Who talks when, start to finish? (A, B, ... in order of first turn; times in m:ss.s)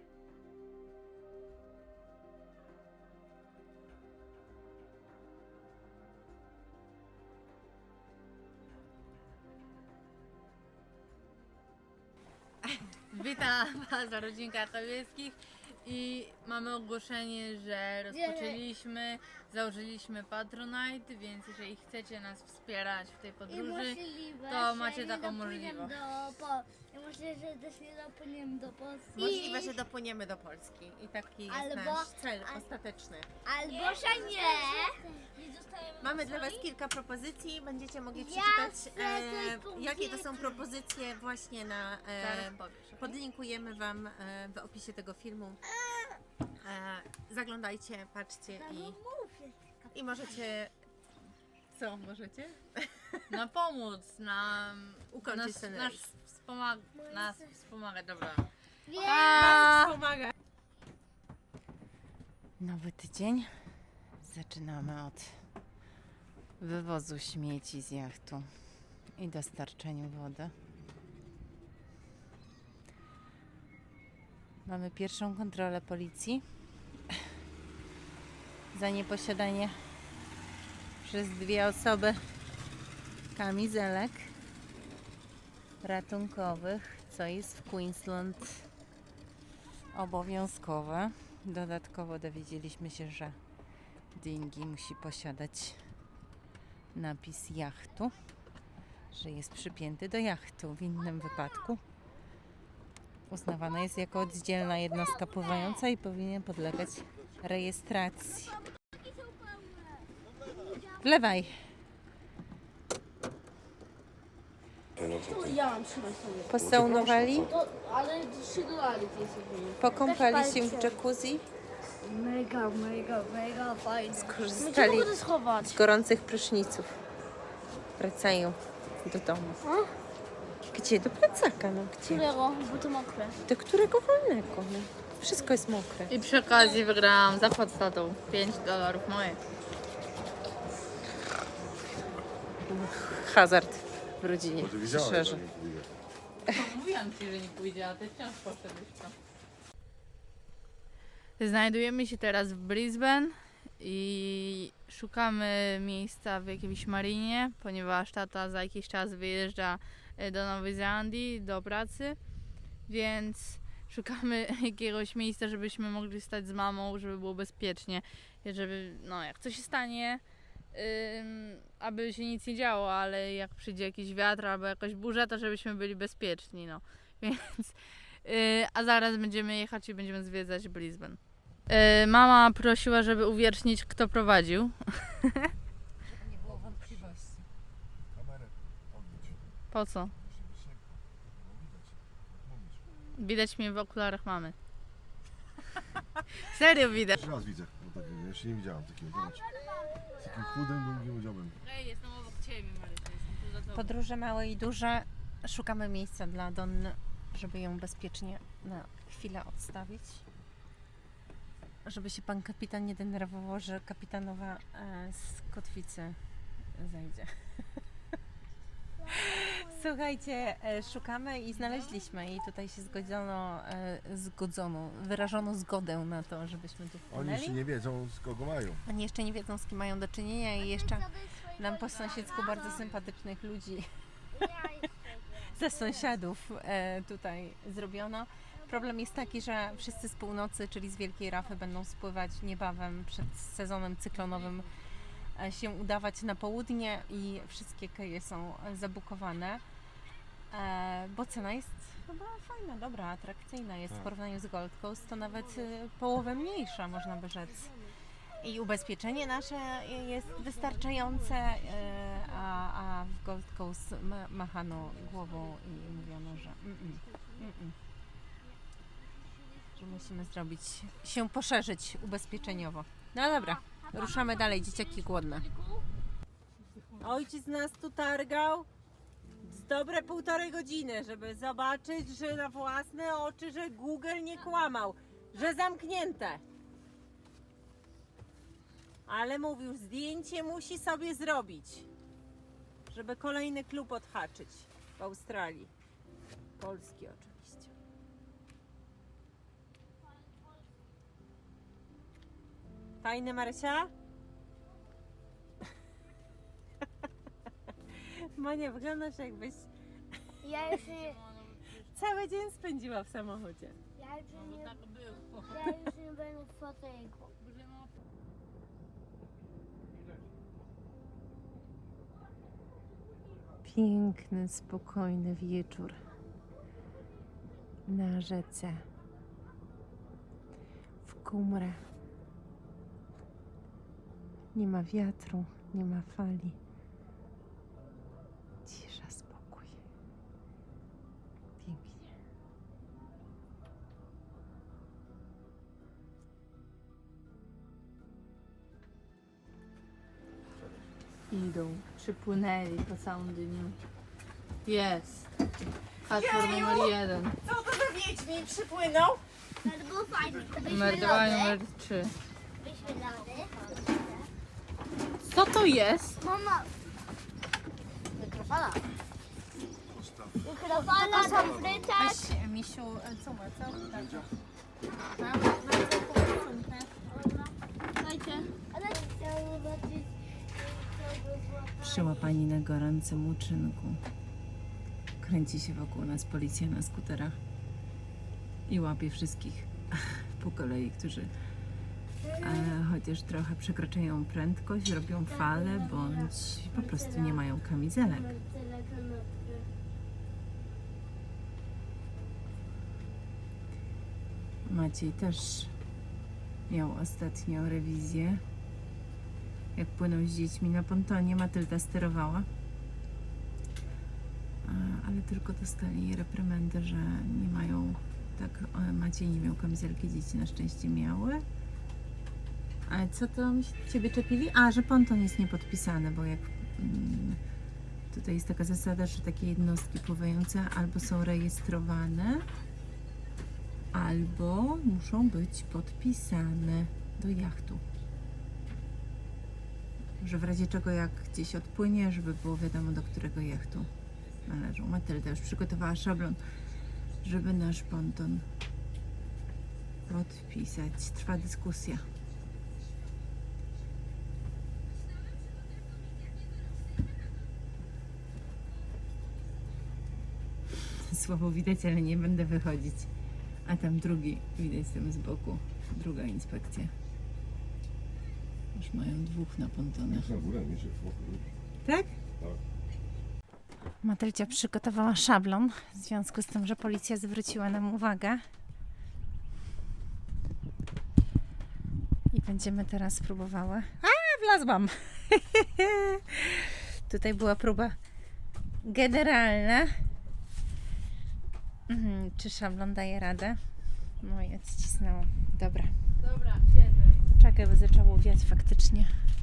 0:13.1-0:26.0 A
0:18.1-0:18.6 B
0:23.5-0:29.8 B
0:29.1-0:33.3 C
0:31.5-0:32.6 B
0:33.4-0:35.3 B
0:33.6-0:36.6 D
0:36.0-0:45.6 C
0:38.1-0:40.6 B
0:42.2-0:43.2 A
0:45.7-0:46.2 B
0:46.6-0:49.0 C
0:48.5-0:50.4 B
0:49.9-0:50.7 C
0:51.7-0:53.2 C
0:53.3-1:00.0 A
0:55.1-0:56.0 C
0:57.0-0:57.4 B
0:58.9-0:59.7 B
0:59.2-1:00.3 C
1:02.6-1:03.6 C
1:04.2-1:05.4 C
1:06.6-1:08.5 C
1:09.2-1:10.5 C
1:14.6-1:16.4 C
1:18.7-1:19.8 C
1:21.0-1:22.2 C
1:23.3-1:24.3 C
1:25.8-1:28.7 C
1:29.9-1:33.4 C
1:34.1-1:35.8 C
1:36.9-1:38.2 C
1:39.1-1:41.8 C
1:43.3-1:48.6 C
1:44.2-1:45.8 B
1:49.2-1:49.7 B
1:50.5-1:51.0 B
1:51.0-1:51.6 C
1:55.0-1:55.6 E
1:55.2-1:59.8 D
1:56.5-1:57.5 C
1:56.5-1:57.5 E
1:59.8-2:01.5 C
1:59.9-2:01.0 B
2:02.1-2:05.7 D
2:02.1-2:05.1 B
2:04.1-2:06.9 C
2:08.0-2:09.6 C
2:10.7-2:12.3 C
2:12.1-2:13.4 D
2:13.5-2:16.1 C
2:16.1-2:19.4 A
2:22.6-2:25.4 C
2:24.6-2:25.9 E
2:26.5-2:29.1 A
2:31.4-2:42.2 A
2:42.8-3:01.2 A
3:01.7-3:05.5 A
3:06.1-3:07.5 C
3:06.5-3:07.2 E
3:08.1-3:09.5 E
3:09.7-3:10.1 A
3:10.1-3:12.8 E
3:13.1-3:14.5 A
3:16.4-3:17.2 A
3:17.1-3:19.4 E
3:19.1-3:20.6 B
3:20.2-3:21.6 E
3:21.6-3:23.9 A
3:23.7-3:30.2 C
3:31.8-3:36.2 C
3:36.7-3:37.6 C
3:39.0-3:40.0 B
3:39.1-3:47.6 C
3:47.1-3:48.8 E
3:48.8-3:53.9 C
3:50.6-3:52.8 B
3:51.9-3:53.0 A
3:54.3-3:56.2 B
3:55.5-4:04.7 C
3:58.5-4:00.1 B
4:05.3-4:09.6 C
4:10.5-4:17.7 C
4:15.2-4:15.7 D
4:17.4-4:18.0 D
4:18.4-4:27.8 C
4:20.3-4:21.5 D
4:25.1-4:25.6 D
4:28.4-4:29.8 B
4:29.8-4:35.4 C
4:33.4-4:35.8 B
4:37.0-4:38.7 C
4:39.4-4:46.4 C
4:49.0-4:51.9 C
4:52.9-4:55.7 C
4:56.6-4:57.7 C
5:03.0-5:03.9 C
5:07.9-5:09.7 C
5:10.4-5:11.2 B
5:10.6-5:12.1 A
5:11.9-5:13.8 C
5:13.9-5:14.8 B
5:14.3-5:15.6 A
5:15.4-5:17.3 B
5:17.4-5:17.9 A
5:23.6-5:26.0 C
5:27.8-5:28.8 C
5:31.0-5:31.8 C
5:34.5-5:36.6 C
5:38.6-5:39.8 C
5:41.6-5:42.0 C
5:51.3-5:53.8 A
5:54.6-5:55.3 A
5:56.1-5:57.4 A
5:56.1-5:59.2 C
5:59.6-6:01.6 B
6:00.6-6:02.1 A
6:02.6-6:04.3 B
6:05.2-6:06.2 A
6:06.2-6:06.7 B
6:08.5-6:08.7 B
6:09.9-6:10.6 E
6:10.4-6:12.2 B
6:11.0-6:14.3 C
6:11.3-6:11.9 E
6:13.7-6:14.3 E
6:15.0-6:16.9 C
6:17.1-6:17.5 B
6:18.2-6:18.5 D
6:18.6-6:22.3 B
6:21.8-6:24.0 C
6:25.2-6:27.4 C
6:28.7-6:31.3 C
6:32.2-6:32.7 B
6:32.4-6:38.3 C
6:35.3-6:37.4 B
6:38.0-6:39.7 B
6:44.6-6:45.7 C
6:46.7-6:48.4 C
6:49.8-6:52.5 C
6:54.6-7:01.4 C
7:02.9-7:07.4 C
7:08.1-7:12.4 C
7:13.9-7:17.8 C
7:20.2-7:23.9 C
7:24.4-7:26.4 C
7:27.2-7:28.5 C
7:30.1-7:32.0 C
7:40.8-7:43.1 C
7:43.6-7:46.9 C
7:48.7-7:50.3 C
7:50.0-7:51.5 E
7:51.8-7:52.1 C
7:54.0-7:58.4 C
8:02.3-8:08.0 C
8:08.8-8:10.0 C
8:11.9-8:13.6 C
8:14.2-8:15.9 C
8:16.2-8:17.2 A
8:17.4-8:19.1 C